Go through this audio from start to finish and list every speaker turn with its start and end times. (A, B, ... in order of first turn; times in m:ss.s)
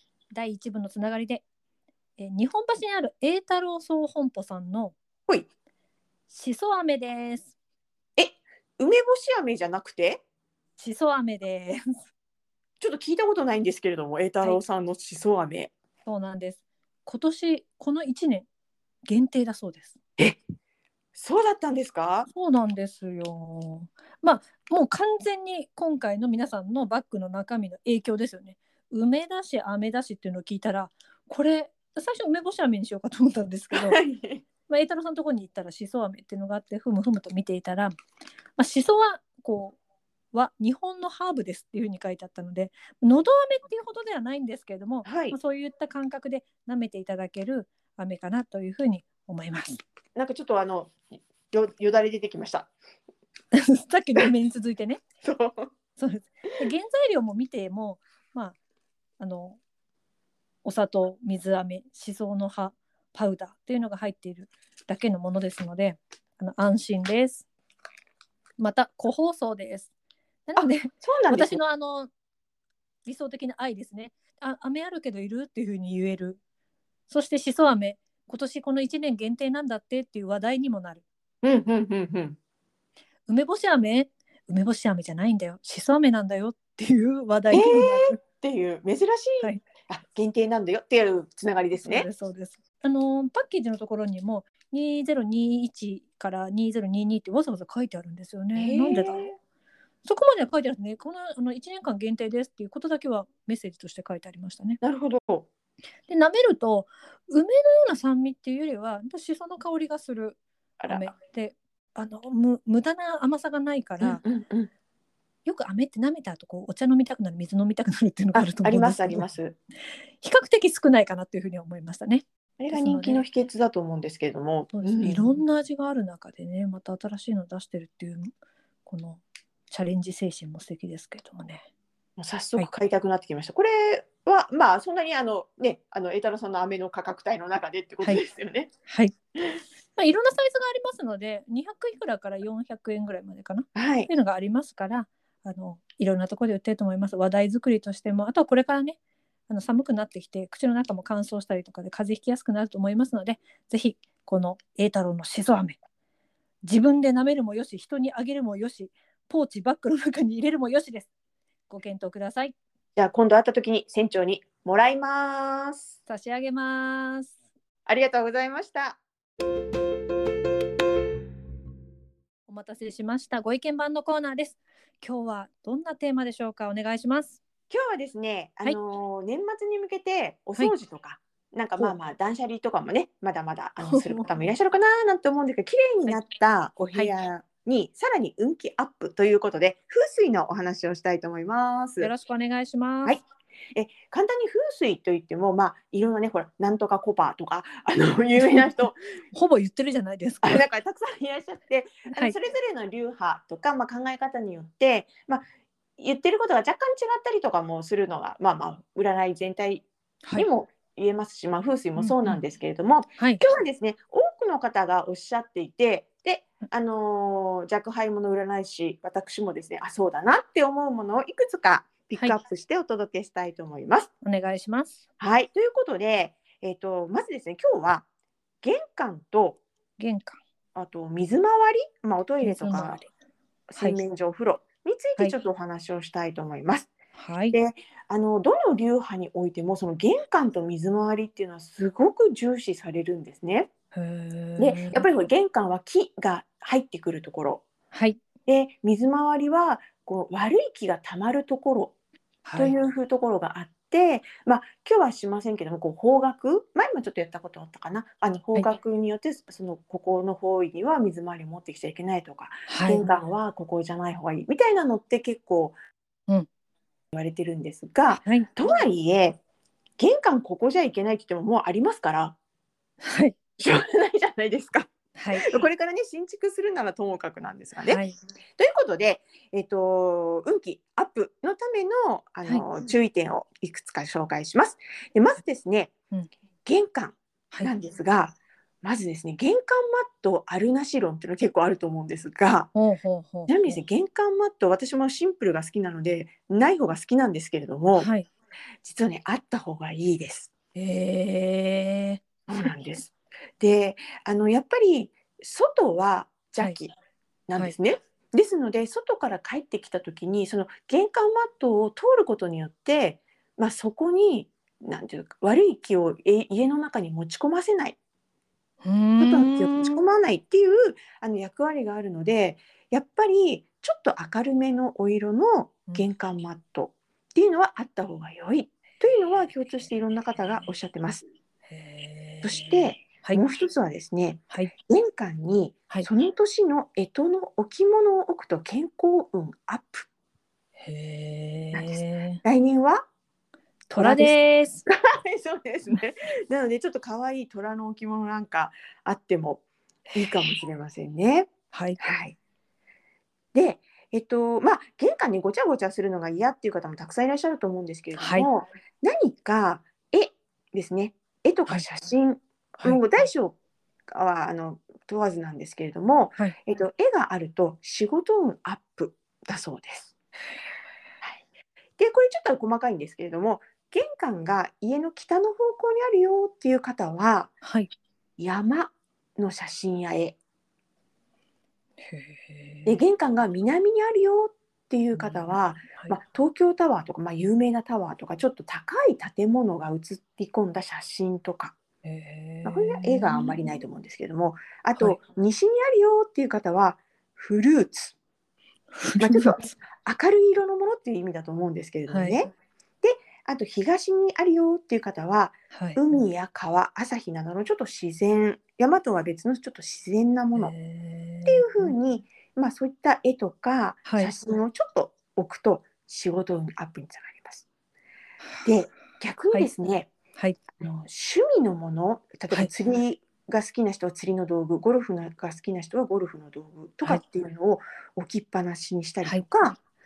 0:00.3-0:01.4 A
0:02.2-0:05.0 A
0:06.3-0:07.5 A
0:08.2-0:10.2 B
0:10.8-0:12.0 A
0:12.8-0:15.7 B
0:16.0-0:18.5 A
0:19.0-0:20.0 A
0:21.1-0:22.3 B
0:22.3-0:34.0 A
0:33.7-0:34.4 B
0:34.7-0:37.9 A
0:38.6-0:39.8 A
0:40.3-0:49.8 A
0:45.0-0:45.4 B
0:50.2-0:52.7 B
0:53.5-0:55.0 A
0:55.2-0:55.7 B
0:56.0-0:58.6 A
0:59.2-0:59.6 A
1:00.6-1:07.5 A
1:08.6-1:09.9 A
1:10.5-1:12.1 A
1:10.6-1:11.6 B
1:13.0-1:16.4 A
1:17.1-1:21.0 A
1:21.4-1:22.4 B
1:23.3-1:28.2 A
1:27.5-1:32.1 B
1:31.8-1:39.2 A
1:38.5-1:39.3 B
1:40.0-1:44.8 A
1:44.8-1:45.5 B
1:46.1-1:54.2 A
1:50.8-1:51.1 B
1:54.0-1:54.7 B
1:55.4-1:59.3 A
1:58.3-1:59.6 B
2:00.2-2:03.2 A
2:02.6-2:05.4 B
2:04.7-2:08.3 A
2:08.8-2:11.7 A
2:12.2-2:18.7 B
2:18.9-2:19.1 A
2:20.0-2:29.0 A
2:23.7-2:24.1 B
2:29.5-2:35.8 A
2:36.6-2:41.1 A
2:41.7-2:42.5 A
2:43.0-2:45.9 B
2:46.1-2:47.4 A
2:47.8-2:49.0 B
2:52.5-2:57.4 A
2:57.7-3:12.1 B
3:03.8-3:04.3 A
3:12.0-3:13.2 A
3:13.7-3:19.0 B
3:18.4-3:18.7 A
3:19.3-3:20.6 A
3:20.4-3:25.4 B
3:26.0-3:44.1 B
3:32.0-3:32.4 A
3:44.2-3:45.0 A
3:45.2-3:48.0 B
3:48.6-3:49.6 B
3:50.0-3:50.4 A
3:50.7-3:53.0 B
3:52.4-3:53.0 A
3:53.7-3:56.9 B
3:57.1-3:57.6 A
3:57.5-4:03.7 B
4:03.9-4:05.0 A
4:04.6-4:07.6 B
4:07.9-4:08.2 A
4:08.5-4:11.9 B
4:12.4-4:12.7 A
4:12.6-4:25.8 B
4:22.7-4:23.1 A
4:27.1-4:29.4 B
4:28.1-4:28.8 A
4:30.0-4:32.4 B
4:33.0-4:33.4 A
4:33.6-4:38.0 B
4:35.2-4:35.6 A
4:37.8-4:38.2 A
4:38.6-4:45.9 B
4:46.6-4:52.7 B
4:52.7-4:53.8 A
4:53.5-4:58.1 B
4:58.0-4:58.3 A
4:58.8-5:00.5 B
5:00.7-5:02.7 A
5:02.5-5:06.9 B
5:07.5-5:18.0 B
5:18.8-5:20.0 A
5:19.2-5:31.2 B
5:31.7-5:33.4 A
5:32.4-5:40.1 B
5:40.8-5:42.4 A
5:41.7-5:43.0 B
5:43.9-5:44.8 A
5:43.9-5:49.6 B
5:50.1-5:52.4 B
5:51.7-5:52.0 A
5:53.5-6:03.6 B
5:58.2-5:58.5 A
6:02.8-6:03.2 A
6:04.1-6:10.1 B
6:12.0-6:17.5 B
6:17.6-6:17.9 A
6:18.4-6:20.4 B
6:22.0-6:23.0 A
6:22.8-6:31.7 B
6:25.1-6:26.2 A
6:32.0-6:33.5 A
6:32.6-6:38.2 B
6:39.0-6:39.7 A
6:39.2-6:42.5 B
6:42.1-6:42.4 A
6:43.0-6:50.7 B
6:45.7-6:46.0 A
6:50.6-6:51.9 A
6:51.4-6:57.6 B
6:54.0-6:54.3 A
6:58.4-6:58.7 A
6:58.6-7:00.1 B
7:00.7-7:09.8 B